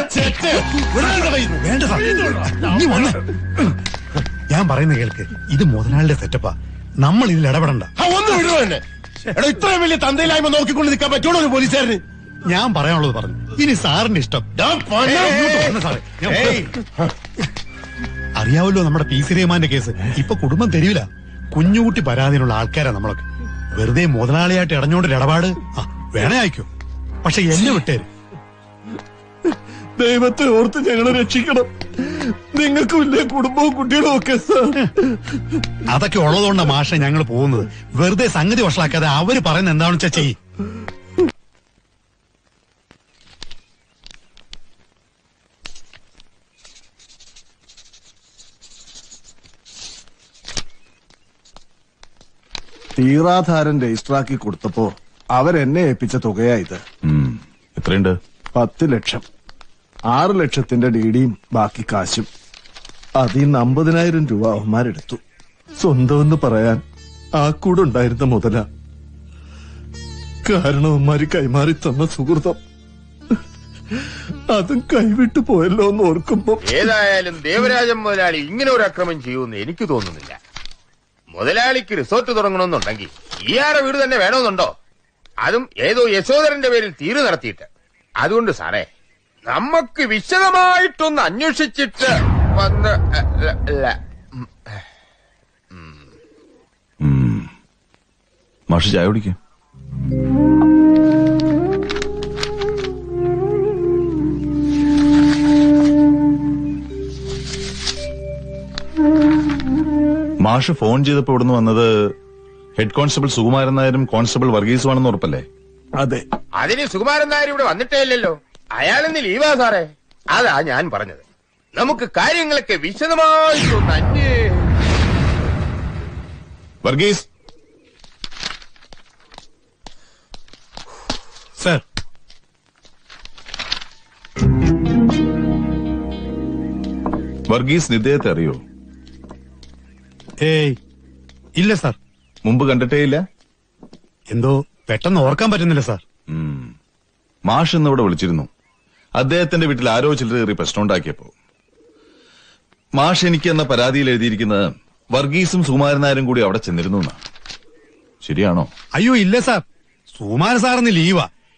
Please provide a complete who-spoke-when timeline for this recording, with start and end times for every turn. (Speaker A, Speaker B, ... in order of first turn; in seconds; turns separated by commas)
Speaker A: 1.0-3.2, Speaker A: 4.5-7.9, Speaker B: 8.0-8.8, Speaker B: 9.4-12.0, Speaker A: 12.5-14.5, Speaker B: 14.6-15.8, Speaker A: 15.1-16.7, Speaker A: 18.4-26.7, Speaker A: 27.2-28.1, Speaker C: 30.0-31.7, Speaker C: 32.5-34.8, Speaker A: 35.9-40.4, Speaker C: 53.0-56.8, Speaker D: 57.0-58.2, Speaker C: 58.6-59.2, Speaker C: 60.1-62.3, Speaker C: 63.2-65.2, Speaker C: 65.8-66.8, Speaker C: 67.4-68.7, Speaker C: 70.5-72.6, Speaker C: 74.5-76.9, Speaker E: 76.7-80.4, Speaker E: 81.3-84.7, Speaker E: 85.4-87.7, Speaker E: 88.2-88.9, Speaker E: 89.5-94.5, Speaker E: 95.7-96.1, Speaker D: 97.0-97.5, Speaker D: 98.7-99.4, Speaker D: 110.4-111.9, Speaker D: 112.8-115.5, Speaker E: 116.6-121.2, Speaker E: 121.8-124.5, Speaker D: 126.8-127.2, Speaker D: 137.5-138.6, Speaker A: 140.4-140.8, Speaker A: 141.6-142.0, Speaker D: 142.4-143.2, Speaker A: 144.3-146.0, Speaker D: 146.3-146.7, Speaker D: 147.5-148.5, Speaker D: 149.2-151.3, Speaker D: 153.0-157.2, Speaker D: 158.2-158.7, Speaker A: 158.9-161.3